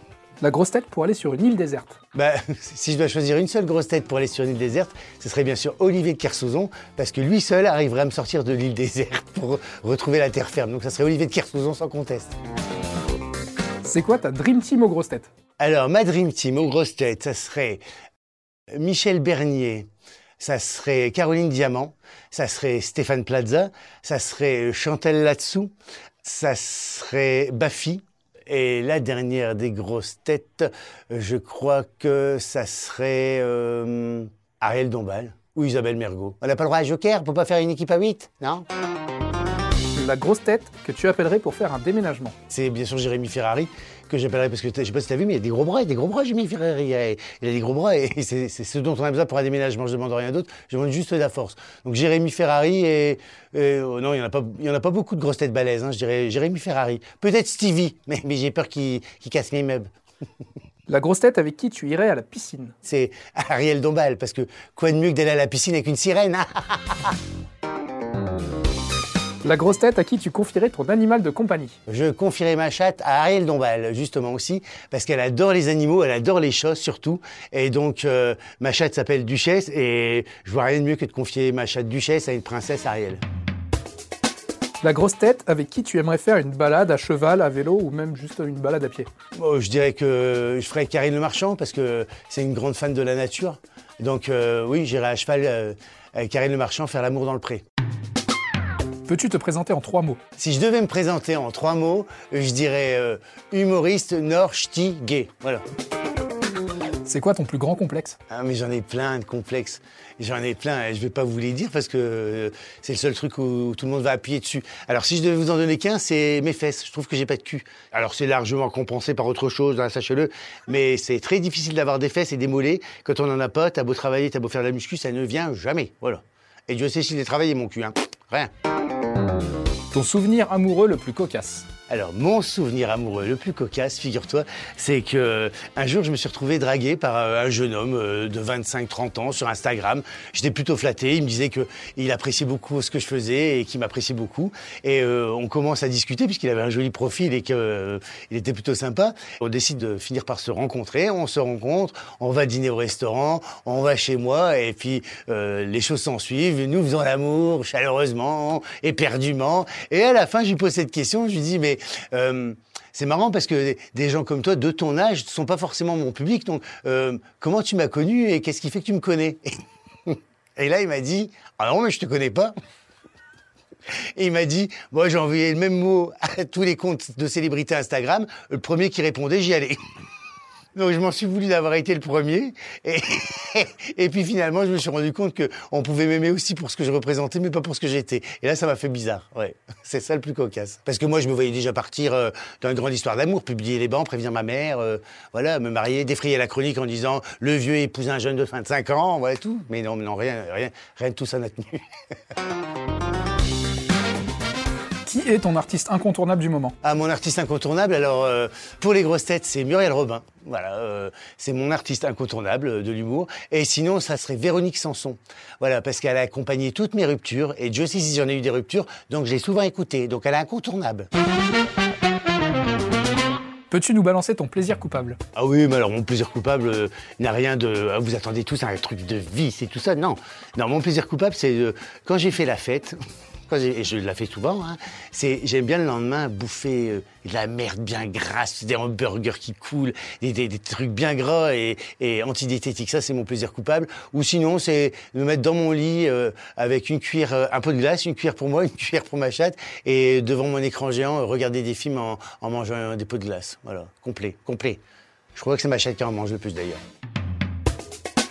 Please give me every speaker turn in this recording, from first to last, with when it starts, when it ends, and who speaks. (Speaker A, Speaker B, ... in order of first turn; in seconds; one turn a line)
Speaker A: 0.4-2.0
Speaker B: 2.1-12.3
Speaker A: 13.8-15.3
Speaker B: 15.6-17.8
Speaker B: 18.8-19.9
Speaker B: 20.4-25.7
Speaker B: 26.2-38.6
Speaker A: 39.9-42.3
Speaker B: 42.5-59.9
Speaker A: 60.9-62.7
Speaker B: 62.8-67.2
Speaker A: 69.4-71.8
Speaker B: 71.9-83.2
Speaker A: 84.8-89.1
Speaker B: 89.3-97.6
Speaker A: 99.0-100.2
Speaker B: 100.4-105.6
Speaker A: 107.0-108.2
Speaker B: 108.3-128.5
Speaker A: 129.9-131.7
Speaker B: 131.9-169.5
Speaker B: 170.1-172.5
Speaker B: 174.1-179.8
Speaker B: 180.7-201.9
Speaker A: 205.0-206.7
Speaker B: 206.8-221.1
Speaker A: 223.7-225.2
Speaker B: 225.3-232.9
Speaker B: 233.5-254.8
Speaker B: 255.3-256.8